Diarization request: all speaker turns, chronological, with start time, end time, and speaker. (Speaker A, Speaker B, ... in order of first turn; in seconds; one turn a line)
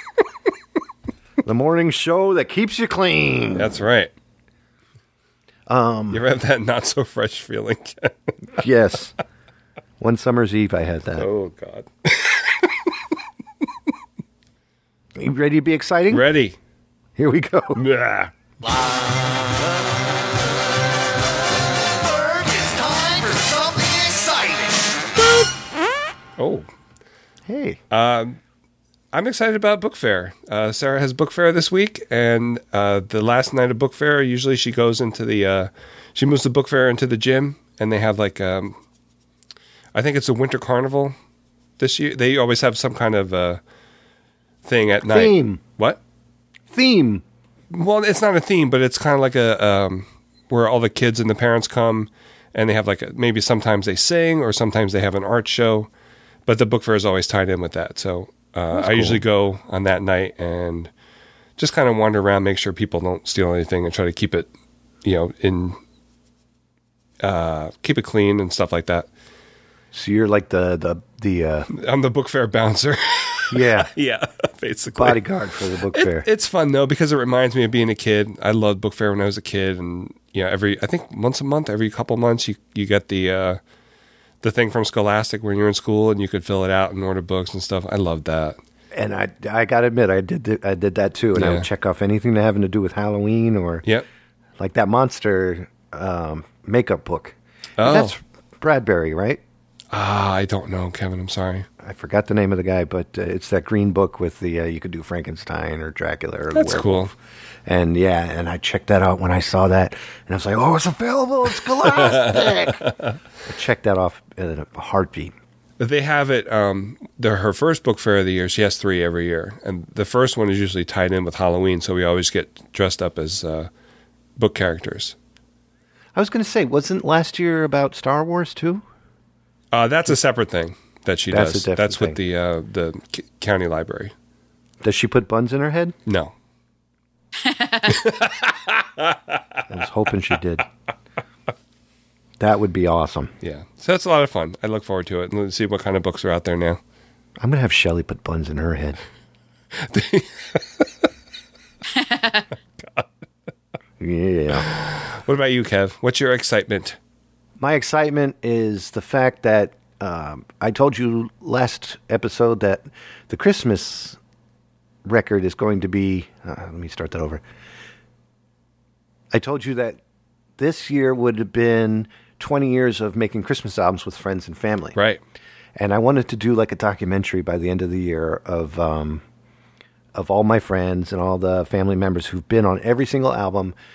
Speaker A: 1.4-3.7
Speaker B: 3.6-4.1
Speaker A: 5.7-6.2
Speaker B: 6.1-8.3
Speaker A: 8.6-9.1
Speaker A: 10.0-11.3
Speaker B: 11.2-12.7
Speaker A: 15.2-16.2
Speaker B: 16.1-16.6
Speaker A: 17.2-17.8
Speaker B: 17.8-18.3
Speaker C: 22.2-24.7
Speaker B: 26.4-26.7
Speaker A: 27.5-27.8
Speaker B: 27.9-28.4
Speaker B: 29.1-38.8
Speaker B: 39.9-41.1
Speaker B: 41.8-43.6
Speaker B: 44.6-46.0
Speaker A: 45.1-45.6
Speaker A: 46.7-47.2
Speaker B: 47.7-55.9
Speaker B: 56.5-60.9
Speaker A: 58.7-59.2
Speaker B: 61.6-64.5
Speaker B: 65.0-65.8
Speaker B: 67.2-69.1
Speaker A: 69.9-71.7
Speaker B: 71.7-75.2
Speaker A: 73.5-73.9
Speaker A: 75.0-76.3
Speaker B: 75.9-83.6
Speaker B: 84.4-88.6
Speaker A: 88.9-93.8
Speaker B: 91.3-91.7
Speaker A: 94.6-99.4
Speaker B: 97.8-98.1
Speaker B: 99.9-101.7
Speaker A: 101.8-107.1
Speaker B: 106.5-107.1
Speaker A: 107.7-112.8
Speaker B: 111.9-112.9
Speaker A: 113.5-115.3
Speaker B: 115.8-123.7
Speaker B: 124.4-125.2
Speaker A: 126.2-128.8
Speaker B: 129.7-134.1
Speaker A: 131.3-132.2
Speaker A: 134.8-136.0
Speaker B: 136.1-136.3
Speaker B: 137.8-139.4
Speaker A: 139.7-140.7
Speaker A: 142.4-143.3
Speaker B: 143.4-146.8
Speaker A: 147.4-149.0
Speaker B: 149.8-150.8
Speaker B: 152.3-153.1
Speaker A: 154.0-154.7
Speaker B: 154.6-157.0
Speaker A: 157.6-164.2
Speaker A: 165.1-167.4
Speaker A: 169.3-170.0
Speaker A: 170.6-175.0
Speaker A: 175.8-179.2
Speaker A: 180.2-183.8